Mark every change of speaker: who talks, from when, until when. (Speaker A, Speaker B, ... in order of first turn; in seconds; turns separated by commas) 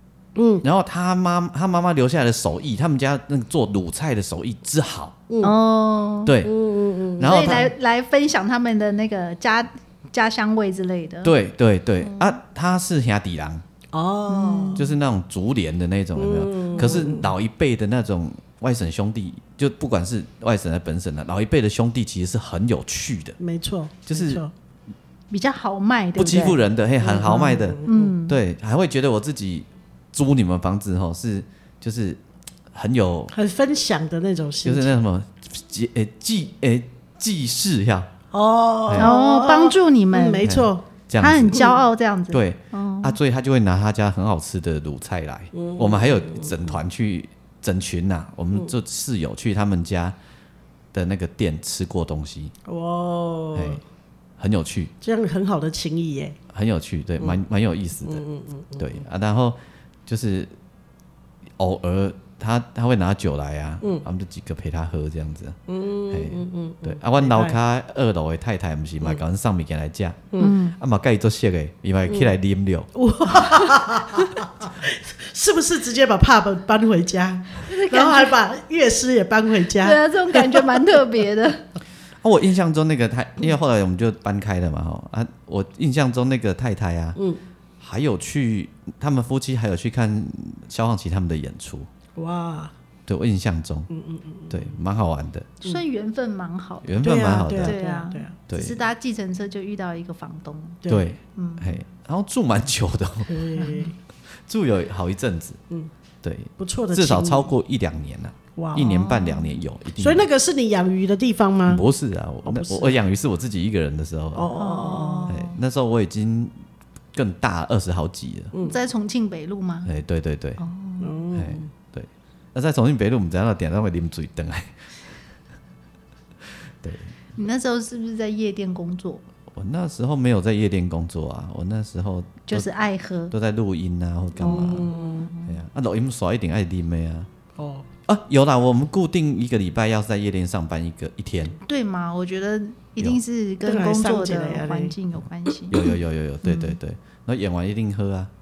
Speaker A: 0.4-0.6, Speaker B: 0.6-5.2, Speaker A: 5.3-5.6, Speaker C: 5.4-6.4, Speaker B: 6.2-6.5, Speaker A: 6.4-7.6, Speaker B: 7.2-7.7, Speaker C: 7.2-11.3, Speaker B: 11.2-13.6, Speaker C: 12.0-12.4, Speaker A: 13.9-14.8, Speaker C: 14.3-14.8, Speaker B: 14.8-23.4, Speaker A: 16.1-17.3, Speaker A: 23.4-24.5, Speaker B: 24.1-24.4, Speaker C: 25.3-26.6, Speaker B: 26.2-32.2, Speaker A: 27.0-28.1, Speaker C: 27.3-28.4, Speaker B: 32.7-33.3, Speaker A: 33.3-34.9, Speaker B: 34.6-38.1, Speaker A: 38.3-40.8, Speaker C: 39.0-40.5, Speaker B: 40.4-41.6, Speaker C: 41.2-43.2, Speaker B: 42.3-50.1, Speaker A: 45.5-46.7, Speaker B: 50.9-52.5, Speaker A: 52.6-53.8, Speaker B: 53.5-53.8, Speaker B: 54.4-54.9, Speaker A: 55.0-56.4, Speaker B: 56.5-58.2, Speaker A: 58.1-59.0, Speaker B: 58.8-60.5, Speaker B: 61.6-65.6, Speaker A: 65.7-67.6, Speaker B: 66.1-72.9, Speaker C: 70.4-70.8, Speaker A: 72.1-72.3, Speaker A: 72.9-80.7, Speaker C: 77.7-78.4, Speaker C: 79.7-81.6, Speaker B: 82.2-87.2, Speaker B: 87.8-91.9, Speaker A: 92.2-92.7, Speaker B: 93.1-93.9, Speaker A: 93.9-94.7, Speaker B: 94.5-95.5, Speaker C: 95.6-100.8, Speaker B: 96.8-97.8, Speaker A: 97.0-98.3, Speaker B: 98.5-98.8, Speaker B: 100.9-103.5, Speaker C: 101.3-101.8, Speaker A: 103.3-103.9, Speaker C: 103.6-103.9, Speaker B: 104.5-105.6, Speaker B: 106.2-110.3, Speaker A: 106.6-107.5, Speaker A: 108.5-108.9, Speaker C: 108.8-109.5, Speaker A: 110.0-111.9, Speaker B: 111.7-114.5, Speaker A: 112.5-113.0, Speaker A: 114.3-115.3, Speaker C: 114.5-115.5, Speaker B: 115.3-116.5, Speaker B: 117.1-118.5, Speaker A: 118.5-118.8, Speaker C: 118.6-119.9, Speaker B: 119.8-120.6, Speaker C: 120.6-121.2, Speaker A: 121.0-121.7, Speaker B: 121.3-124.9, Speaker B: 126.8-127.1, Speaker C: 127.4-129.2, Speaker B: 129.5-132.7, Speaker C: 132.5-133.3, Speaker B: 133.3-134.9, Speaker A: 134.4-135.3, Speaker C: 134.4-135.6, Speaker B: 135.4-137.3, Speaker A: 137.6-137.9, Speaker B: 138.1-141.6, Speaker C: 141.6-145.9, Speaker A: 143.7-144.9, Speaker B: 145.7-148.3, Speaker C: 146.4-146.8